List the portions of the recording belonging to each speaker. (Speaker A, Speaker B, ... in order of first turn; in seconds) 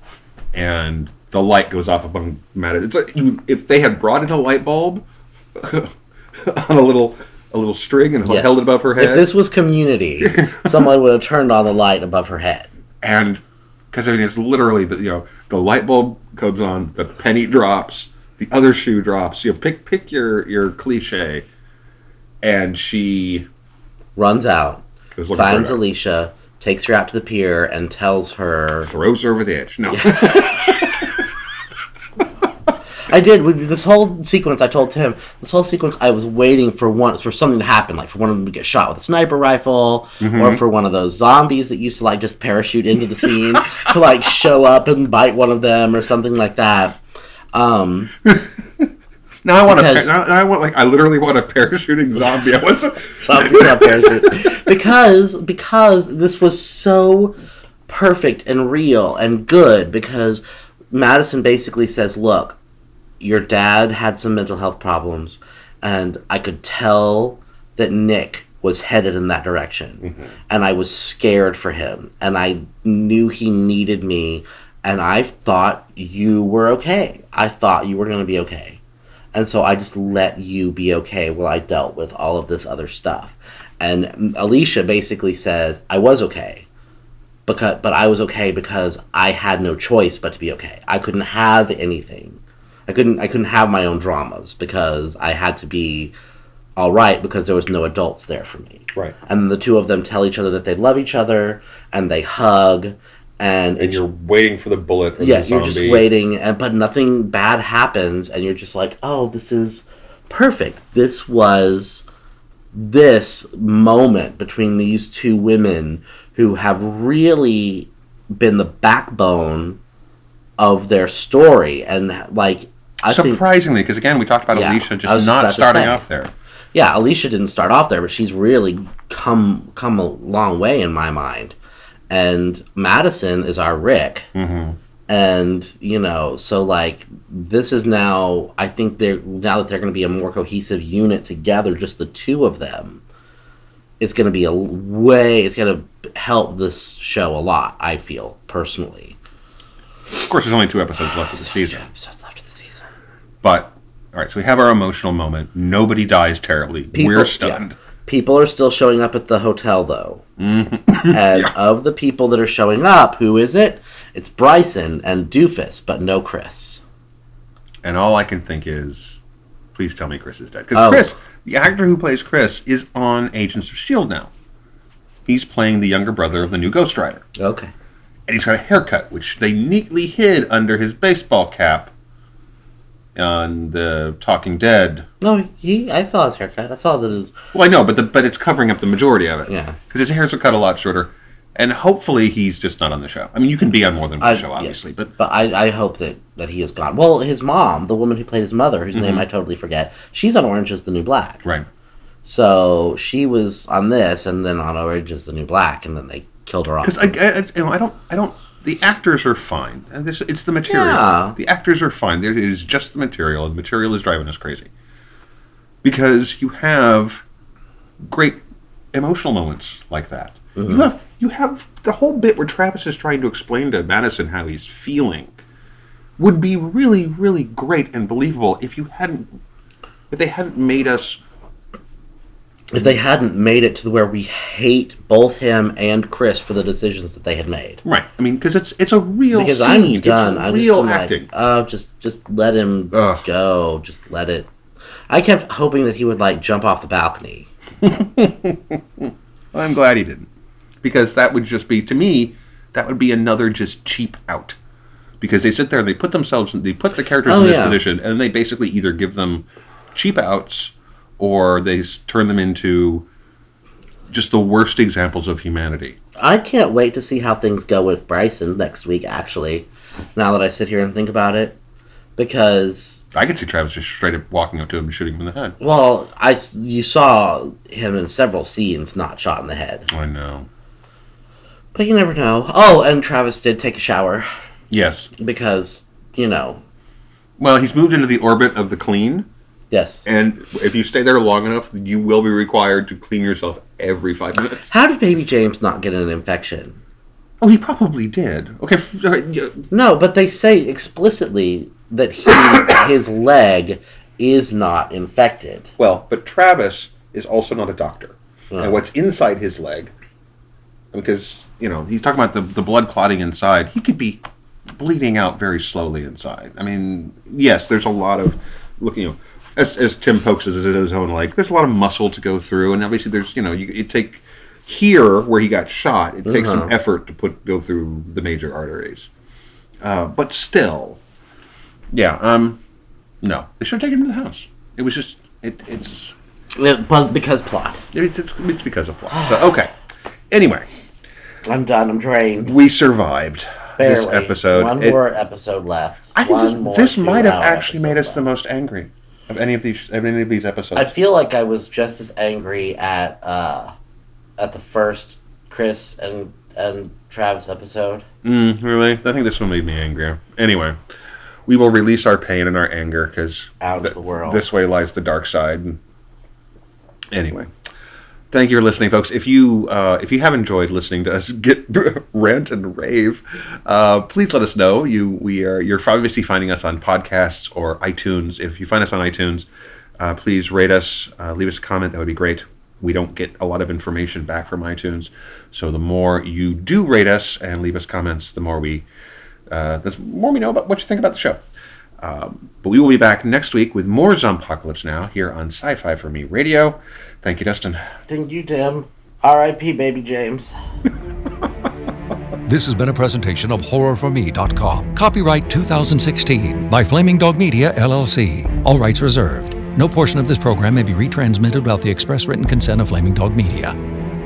Speaker A: 0.5-9.3, 10.2-10.9, 13.0-21.5, 22.4-23.5, 25.1-25.8, 28.9-31.2, 40.2-40.6, 48.2-48.9, 49.4-54.6, 70.0-70.3, 103.8-106.1, 123.0-126.3, 134.3-134.8, 150.1-151.9, 153.4-157.8, 160.4-161.5, 167.8-169.2, 169.8-174.3, 175.3-177.2, 178.3-181.9, 183.2-185.1, 187.5-195.1, 198.9-199.2, 206.8-214.7, 215.8-217.2, 218.0-218.4, 218.9-225.4, 226.2-229.3, 230.1-231.2, 237.8-241.3, 242.9-243.2, 247.8-250.3, 250.8-254.6, 255.2-263.1, 264.1-266.0, 273.1-275.6, 279.9-280.5, 284.7-285.1, 287.4-289.3, 290.1-294.7, 297.4-299.7, 305.8-309.9, 310.9-329.1, 329.8-331.0, 331.9-332.6, 333.2-336.1, 337.9-339.7, 340.3-340.7, 342.4-345.0, 346.1-350.9, 358.2-360.8, 361.5-365.8, 367.1-367.5, 368.3-379.5, 380.0-388.9, 389.5-391.4, 392.0-397.8
Speaker B: 8.2-12.7, 24.2-28.9, 29.9-30.6, 33.1-47.0, 47.5-48.1, 49.6-50.1, 52.3-57.4, 57.9-62.6, 63.2-78.8, 79.3-86.7, 87.5-96.1, 96.8-104.0, 105.2-112.0, 112.7-119.8, 120.6-123.4, 124.5-126.0, 126.7-131.6, 132.1-134.3, 135.1-143.0, 144.0-149.2, 151.3-152.9, 156.9-160.2, 161.1-166.8, 170.7-171.1, 177.4-177.7, 185.2-187.3, 189.5-189.8, 194.2-201.4, 202.2-207.2, 210.7-211.4, 220.6-220.9, 232.7-237.8, 239.3-244.5, 245.1-247.5, 257.3-257.8, 266.2-271.6, 272.2-273.0, 275.6-279.9, 281.7-284.3, 285.2-286.6, 289.7-290.1, 294.7-296.8, 299.7-305.7, 308.5-308.8, 326.2-326.7, 336.6-337.8, 339.1-339.7, 341.5-342.5, 343.8-348.2, 350.8-353.7, 354.4-358.1, 363.6-364.4, 398.1-400.6
Speaker C: 402.5-413.8